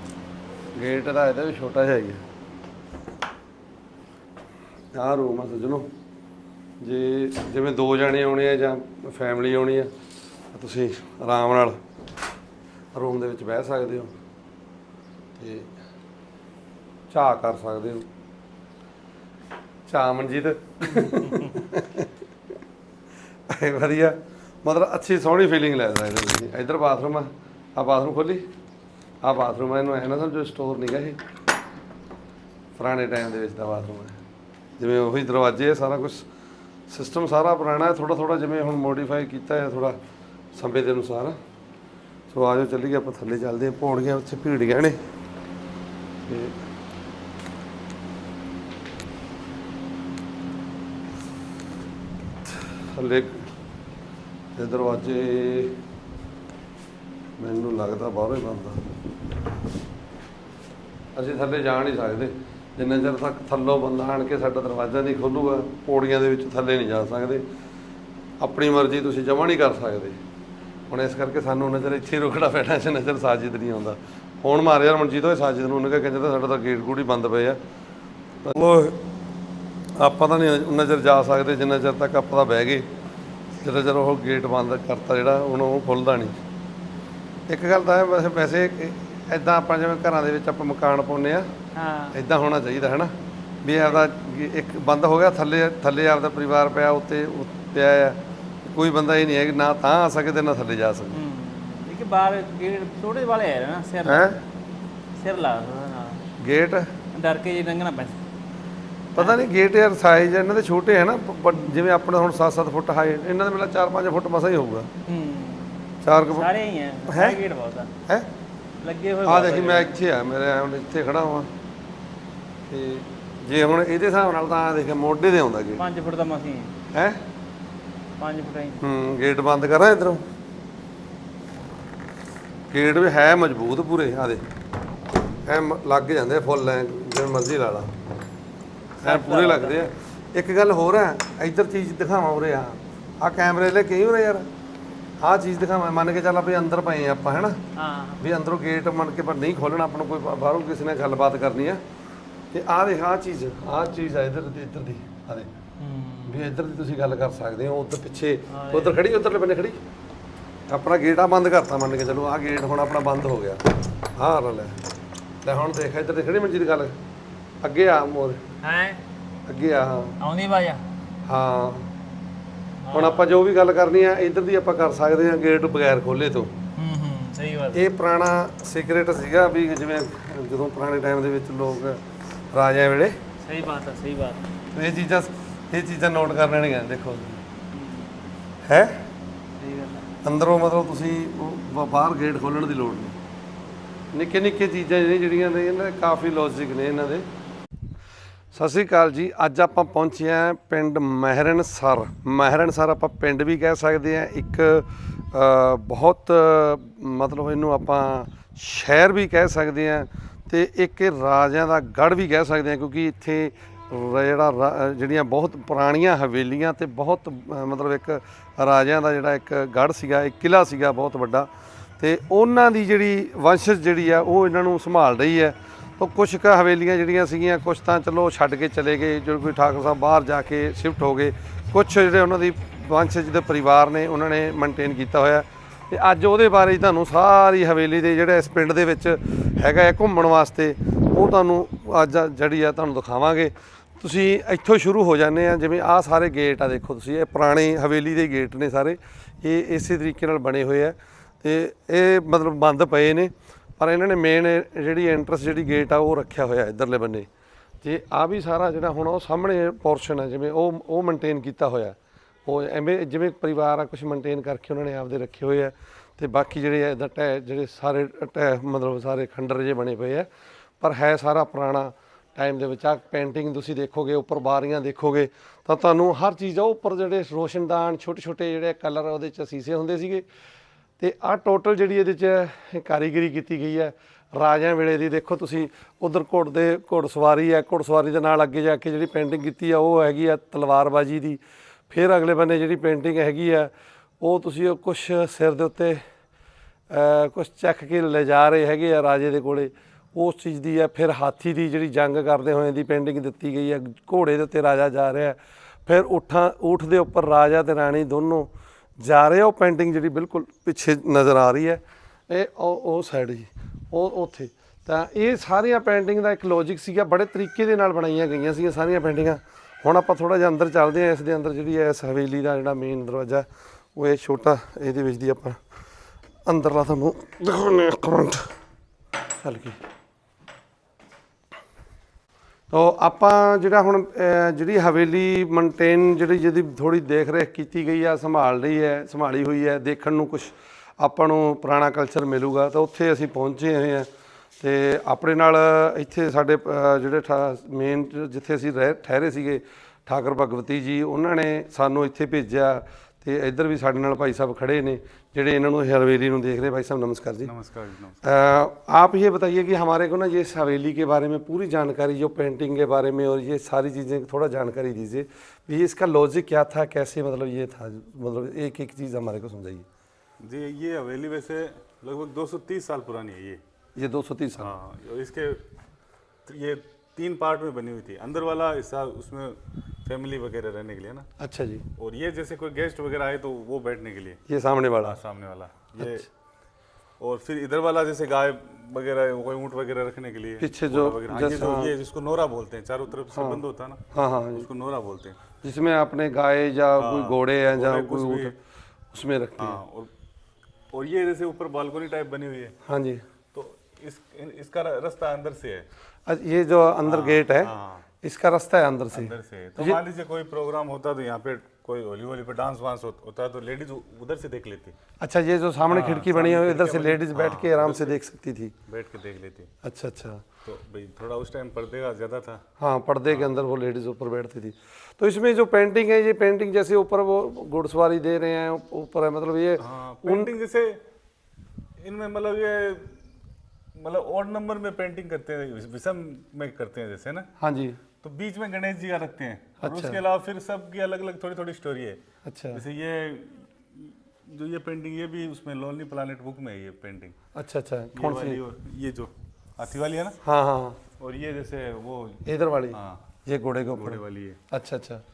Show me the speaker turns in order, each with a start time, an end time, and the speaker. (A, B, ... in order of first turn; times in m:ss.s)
0:00.7-0:02.2 A
0:04.9-0:05.9 A
0:06.8-0:09.9 A
0:10.5-0:11.8 A
0:12.9-0:14.1 A
0:15.4-0:15.7 A
0:17.1-0:18.0 A
0:19.9-0:22.1 A
0:23.5-0:28.4 A
0:29.2-0:31.2 A
0:32.8-0:34.2 A
0:34.8-0:36.3 A
0:36.9-0:40.0 A
0:40.5-0:41.4 A
0:42.3-0:45.0 A
0:46.3-0:46.6 A
0:52.6-0:53.5 A
0:54.6-0:55.8 A
0:57.4-0:58.8 A
1:01.1-1:07.4 A
1:08.4-1:10.2 A
1:10.9-1:17.6 A
1:18.4-1:19.0 A
1:20.0-1:22.9 A
1:23.6-1:26.4 A
1:27.5-1:31.5 A
1:31.8-1:32.2 B
1:32.1-1:41.2 A
1:41.1-1:44.3 B
1:44.1-1:44.4 A
1:45.2-1:46.2 B
1:46.4-1:47.0 A
1:47.1-1:48.2 B
1:49.1-1:54.9 A
1:55.1-1:57.9 B
1:56.0-1:56.5 A
1:57.1-1:57.4 A
1:58.8-2:00.0 B
1:59.2-2:01.5 A
2:02.7-2:05.8 A
2:05.8-2:06.7 B
2:06.9-2:07.2 A
2:08.2-2:08.8 B
2:08.8-2:10.2 A
2:12.7-2:14.4 A
2:15.4-2:17.9 A
2:19.0-2:19.8 B
2:19.0-2:24.5 A
2:25.2-2:27.6 A
2:27.8-2:28.2 B
2:28.2-2:31.8 A
2:32.5-2:35.5 A
2:35.8-2:36.5 B
2:36.2-2:39.8 A
2:38.5-2:39.0 B
2:40.7-2:44.8 A
2:45.4-2:47.0 A
2:47.6-2:48.4 A
2:48.6-2:49.0 B
2:49.5-2:50.2 A
2:50.2-2:50.8 B
2:51.2-2:51.9 A
2:52.8-2:53.3 B
2:52.9-2:56.5 A
2:56.8-2:57.9 B
2:57.7-3:02.0 A
3:02.5-3:03.2 A
3:03.4-3:04.5 B
3:04.7-3:07.4 A
3:07.7-3:08.1 B
3:08.6-3:09.0 A
3:09.6-3:10.1 B
3:10.2-3:13.2 A
3:14.1-3:17.2 A
3:18.5-4:17.3 A
4:17.8-4:30.3 A
4:30.8-4:40.2 A
4:41.0-4:56.0 A
4:56.9-5:25.6 A
5:26.4-5:28.4 A
5:29.4-5:29.8 A
5:32.7-5:44.1 A
5:44.6-5:57.5 A
5:57.4-5:58.2 C
5:58.2-6:09.8 A
6:10.4-6:13.6 C
6:14.0-6:14.7 A
6:14.6-6:15.6 C
6:16.4-6:21.3 C
6:21.4-6:21.8 A
6:22.0-6:24.4 C
6:24.5-6:25.2 A
6:25.0-6:26.3 C
6:26.0-6:26.2 A
6:27.2-6:34.0 C
6:30.6-6:31.9 A
6:33.3-6:34.7 A
6:34.5-6:35.4 C
6:35.6-6:38.6 A
6:37.0-6:38.5 C
6:39.1-6:39.8 A
6:39.6-6:40.1 C
6:40.9-6:42.8 C
6:42.8-6:43.2 A
6:43.5-6:45.9 C
6:46.3-6:50.0 A
6:47.0-6:48.1 C
6:49.1-6:54.9 C
6:55.2-6:58.8 A
6:55.9-6:58.2 C
6:58.9-6:59.7 C
6:59.8-7:00.4 A
7:00.6-7:02.6 C
7:02.8-7:10.5 A
7:09.8-7:11.0 C
7:12.0-7:13.2 C
7:14.0-7:17.5 C
7:17.6-7:18.0 A
7:18.2-7:22.2 C
7:19.8-7:20.2 A
7:22.4-7:22.8 A
7:22.7-7:27.3 C
7:27.5-7:28.6 A
7:28.1-7:30.4 C
7:30.4-7:31.0 A
7:31.2-7:33.2 C
7:32.4-7:35.2 A
7:33.9-7:34.6 C